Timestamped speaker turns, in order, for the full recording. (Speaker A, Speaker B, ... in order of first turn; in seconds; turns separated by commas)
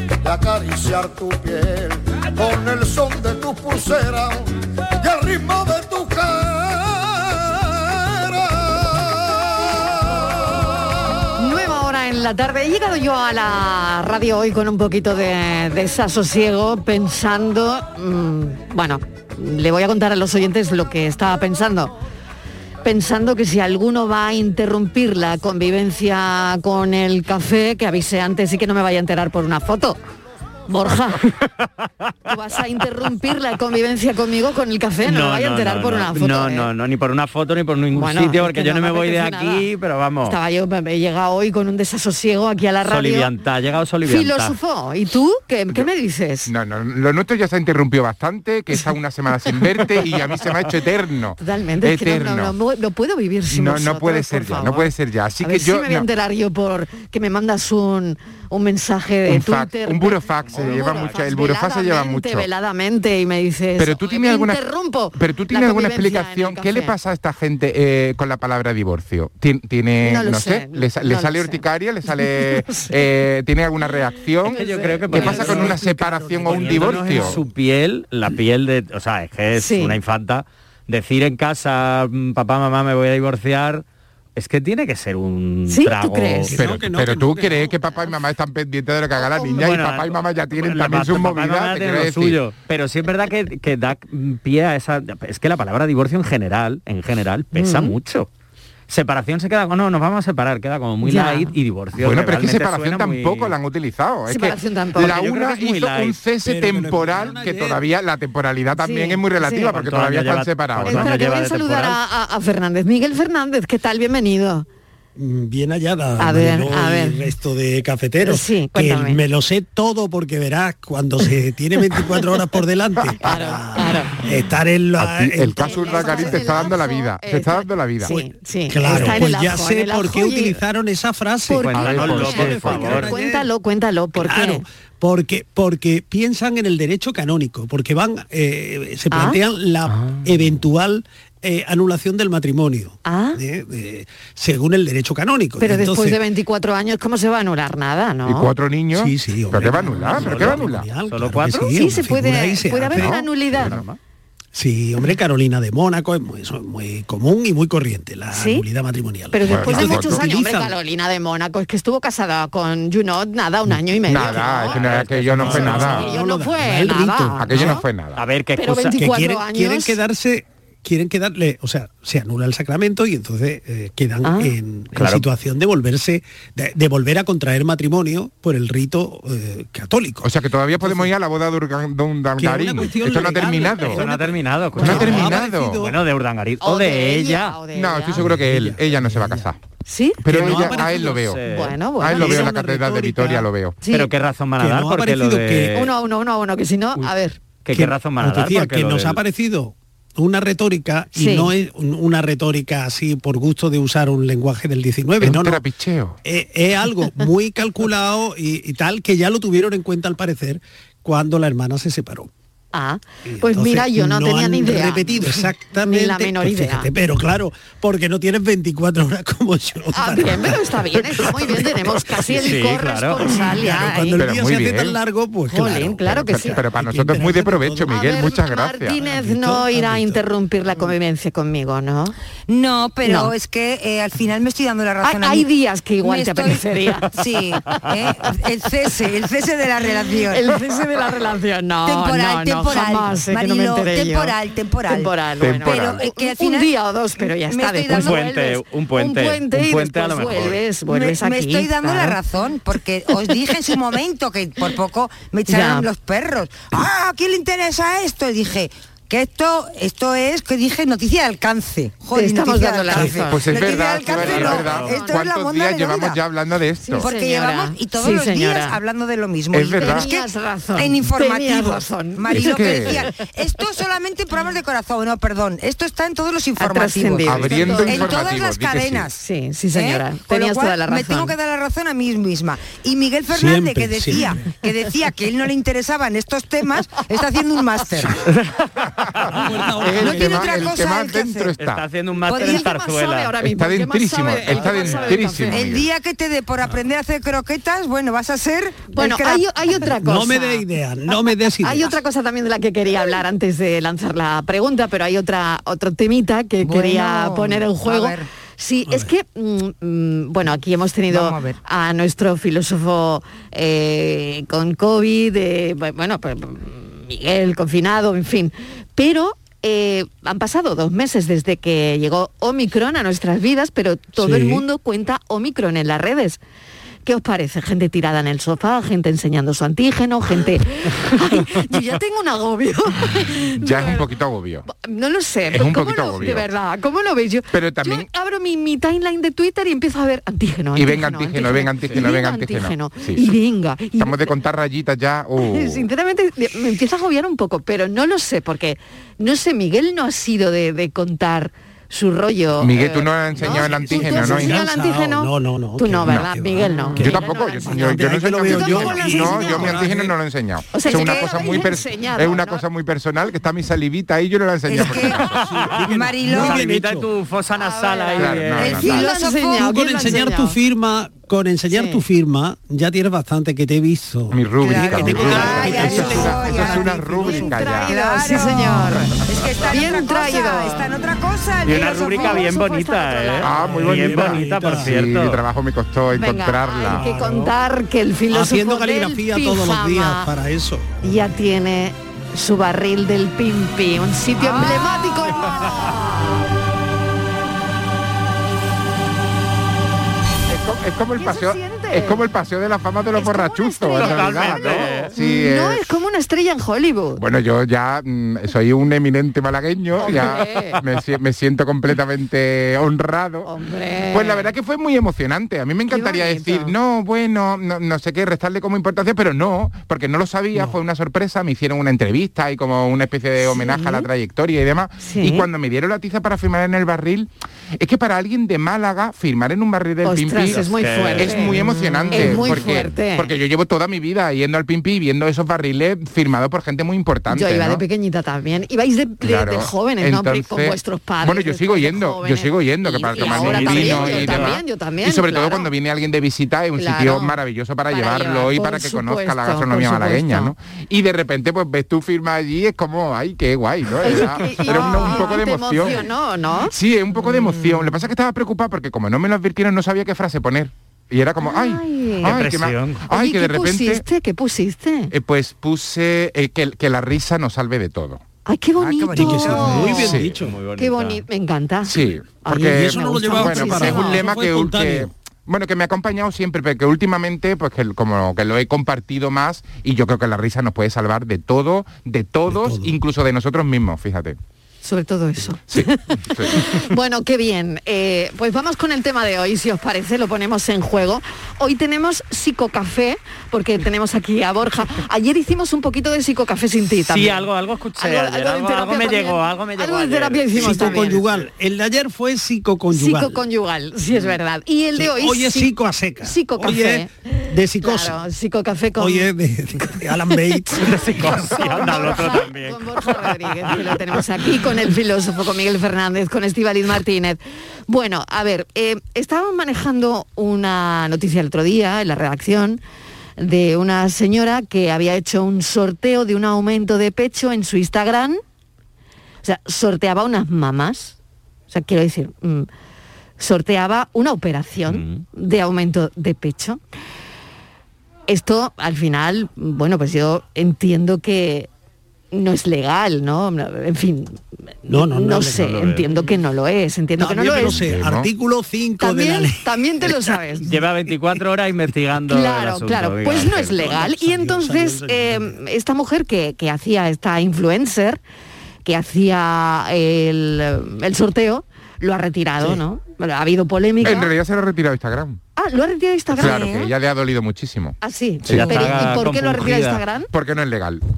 Speaker A: 0.2-11.3, Speaker B: 11.4-21.9, Speaker B: 22.8-30.0, Speaker B: 30.7-31.3, Speaker C: 31.6-32.1, Speaker B: 32.3-36.7, Speaker C: 35.0-40.4, Speaker B: 37.9-39.7, Speaker B: 40.2-43.3, Speaker C: 42.9-44.5, Speaker B: 44.0-46.5, Speaker D: 46.5-52.5, Speaker B: 51.4-66.9, Speaker D: 53.5-56.1, Speaker D: 59.3-62.5, Speaker C: 60.5-61.2, Speaker D: 63.8-64.6, Speaker D: 65.2-74.5, Speaker B: 70.0-72.9, Speaker B: 74.4-75.7, Speaker C: 74.5-75.8, Speaker D: 75.1-77.4, Speaker E: 75.1-77.4, Speaker C: 76.5-83.8, Speaker B: 79.5-80.0, Speaker C: 84.3-86.5, Speaker B: 85.7-86.5, Speaker E: 86.5-87.7, Speaker D: 86.6-92.4, Speaker B: 89.2-89.7, Speaker C: 89.5-98.3, Speaker B: 97.5-97.9, Speaker C: 98.9-103.5, Speaker B: 101.0-101.5, Speaker D: 102.0-111.1, Speaker B: 104.3-105.2, Speaker C: 105.0-106.2, Speaker E: 106.4-107.8, Speaker B: 108.8-109.8, Speaker C: 109.7-112.0, Speaker B: 110.8-114.7, Speaker E: 115.2-126.6, Speaker B: 116.2-117.2, Speaker B: 118.2-119.2, Speaker B: 123.2-124.2, Speaker D: 125.0-128.1, Speaker B: 125.6-130.6, Speaker E: 128.7-133.5, Speaker B: 131.5-134.6, Speaker C: 131.5-133.1, Speaker D: 131.8-132.9, Speaker E: 134.2-146.2, Speaker B: 139.1-139.4, Speaker B: 143.0-143.4, Speaker B: 145.6-148.5, Speaker D: 148.2-150.8, Speaker E: 148.9-153.2, Speaker C: 150.3-150.6, Speaker C: 151.1-151.8, Speaker B: 151.7-153.8, Speaker D: 152.9-153.8, Speaker C: 153.5-154.0, Speaker E: 154.5-160.7, Speaker B: 158.3-158.7, Speaker B: 159.3-164.8, Speaker D: 159.5-160.2, Speaker D: 164.1-166.1, Speaker C: 164.7-165.8, Speaker E: 165.4-167.8, Speaker B: 165.4-167.8, Speaker D: 167.3-168.2, Speaker C: 168.2-169.0, Speaker B: 168.6-170.0, Speaker E: 168.9-180.3, Speaker B: 174.2-174.5, Speaker C: 174.9-175.3, Speaker D: 180.2-184.0, Speaker E: 180.8-181.1, Speaker E: 182.4-186.0, Speaker C: 183.8-187.5, Speaker B: 184.8-185.1, Speaker D: 184.8-185.8, Speaker B: 186.6-188.2, Speaker D: 187.7-189.6, Speaker E: 188.2-189.5, Speaker B: 189.8-192.5, Speaker D: 190.2-191.4, Speaker E: 190.3-191.1, Speaker C: 190.3-191.7, Speaker D: 192.0-193.8, Speaker E: 192.1-193.5, Speaker B: 193.8-194.1, Speaker C: 193.9-195.9, Speaker E: 194.6-195.8, Speaker B: 195.7-197.4, Speaker C: 197.6-199.2, Speaker E: 197.7-205.6, Speaker B: 201.2-201.5, Speaker D: 205.2-206.2, Speaker E: 206.2-212.3, Speaker B: 212.7-216.9, Speaker E: 213.2-222.5, Speaker B: 219.9-224.2, Speaker C: 222.4-223.2, Speaker E: 223.5-228.2, Speaker D: 224.2-225.0, Speaker B: 225.5-226.6, Speaker D: 226.3-228.9, Speaker B: 227.9-232.1, Speaker E: 229.0-230.2, Speaker F: 232.5-235.5, Speaker B: 233.0-233.3, Speaker B: 235.0-237.1, Speaker F: 236.0-240.5, Speaker B: 240.3-244.3, Speaker F: 241.8-248.4, Speaker B: 244.9-252.2, Speaker D: 245.4-246.0, Speaker C: 247.9-250.6, Speaker F: 250.9-266.2, Speaker B: 255.5-255.9, Speaker B: 262.1-265.3, Speaker D: 263.3-267.1, Speaker C: 264.1-264.9, Speaker F: 266.9-279.2, Speaker B: 266.9-268.8, Speaker D: 269.5-270.1, Speaker B: 269.7-273.0, Speaker D: 272.3-273.0, Speaker B: 276.6-278.2, Speaker D: 277.3-279.1, Speaker B: 279.2-281.4, Speaker F: 279.7-288.2, Speaker E: 283.3-284.4, Speaker C: 288.3-288.7, Speaker D: 289.1-291.8, Speaker E: 289.3-290.8, Speaker F: 289.9-291.5, Speaker C: 291.6-293.3, Speaker F: 292.2-292.6, Speaker B: 292.4-295.7, Speaker D: 293.4-295.9, Speaker C: 294.7-295.0, Speaker F: 295.5-299.5, Speaker B: 298.9-326.4, Speaker E: 299.8-301.9, Speaker F: 306.6-308.3, Speaker F: 311.1-311.6, Speaker E: 324.2-324.6, Speaker B: 327.0-334.0, Speaker D: 333.6-334.6, Speaker B: 334.7-344.4, Speaker D: 335.5-336.5, Speaker D: 337.5-338.1, Speaker D: 340.7-343.3, Speaker D: 344.0-345.8, Speaker B: 345.4-359.9, Speaker D: 352.6-354.6, Speaker E: 353.4-360.1, Speaker D: 357.0-365.4, Speaker B: 360.7-362.6, Speaker F: 360.8-361.6, Speaker F: 364.6-365.2, Speaker E: 364.8-367.1, Speaker F: 365.8-366.6, Speaker C: 366.4-369.0, Speaker B: 367.6-370.6, Speaker D: 368.2-369.0, Speaker F: 368.6-369.7, Speaker E: 369.5-377.5, Speaker B: 371.7-372.0, Speaker D: 374.3-377.9, Speaker F: 374.8-382.8, Speaker C: 375.2-375.8, Speaker B: 375.6-379.2, Speaker B: 379.7-380.9, Speaker C: 381.6-385.4, Speaker B: 381.9-383.4, Speaker D: 383.4-387.0, Speaker E: 383.6-384.9, Speaker B: 386.1-390.3, Speaker E: 386.9-387.5, Speaker E: 388.3-391.0, Speaker B: 391.0-396.5, Speaker D: 400.5-405.9, Speaker B: 401.2-402.2, Speaker B: 403.1-407.2, Speaker C: 404.0-405.1, Speaker D: 407.1-413.5, Speaker B: 410.0-410.8, Speaker B: 413.4-414.5, Speaker D: 414.1-437.8, Speaker B: 415.9-416.7, Speaker B: 423.4-424.1, Speaker B: 425.0-425.5, Speaker B: 430.0-433.3, Speaker C: 430.5-432.8, Speaker B: 437.3-445.7, Speaker D: 439.2-456.1, Speaker C: 443.1-444.6, Speaker B: 446.8-447.4, Speaker B: 447.9-450.5, Speaker B: 454.0-456.7, Speaker D: 456.7-464.0, Speaker B: 461.4-462.4, Speaker C: 462.3-463.0, Speaker B: 463.1-465.1, Speaker D: 465.1-468.2, Speaker B: 468.4-470.1, Speaker F: 468.8-470.0, Speaker E: 469.1-470.5, Speaker D: 469.9-470.3, Speaker C: 470.3-471.2, Speaker B: 470.8-474.2, Speaker D: 471.8-484.4, Speaker E: 472.5-475.1, Speaker E: 482.5-482.9, Speaker B: 484.8-501.2, Speaker D: 485.7-486.6, Speaker C: 497.1-501.2, Speaker E: 500.5-503.4, Speaker B: 502.9-505.7, Speaker E: 504.9-508.1, Speaker B: 506.2-522.8, Speaker E: 509.0-510.9, Speaker C: 510.8-513.8, Speaker B: 523.4-528.4, Speaker B: 529.4-531.1, Speaker B: 531.7-532.7, Speaker B: 533.4-536.8, Speaker C: 534.9-535.2, Speaker B: 538.3-541.7, Speaker B: 542.3-544.4, Speaker E: 544.9-545.7, Speaker B: 544.9-547.8, Speaker C: 545.5-546.1, Speaker E: 547.2-550.1, Speaker D: 547.6-548.3, Speaker B: 549.0-550.7, Speaker C: 550.6-553.7, Speaker B: 552.3-558.2, Speaker E: 553.6-555.6, Speaker B: 558.8-564.3, Speaker D: 564.0-565.4, Speaker B: 565.6-566.8, Speaker D: 566.4-569.0, Speaker F: 566.4-566.9, Speaker B: 568.0-570.3, Speaker C: 568.5-570.0, Speaker D: 570.3-571.0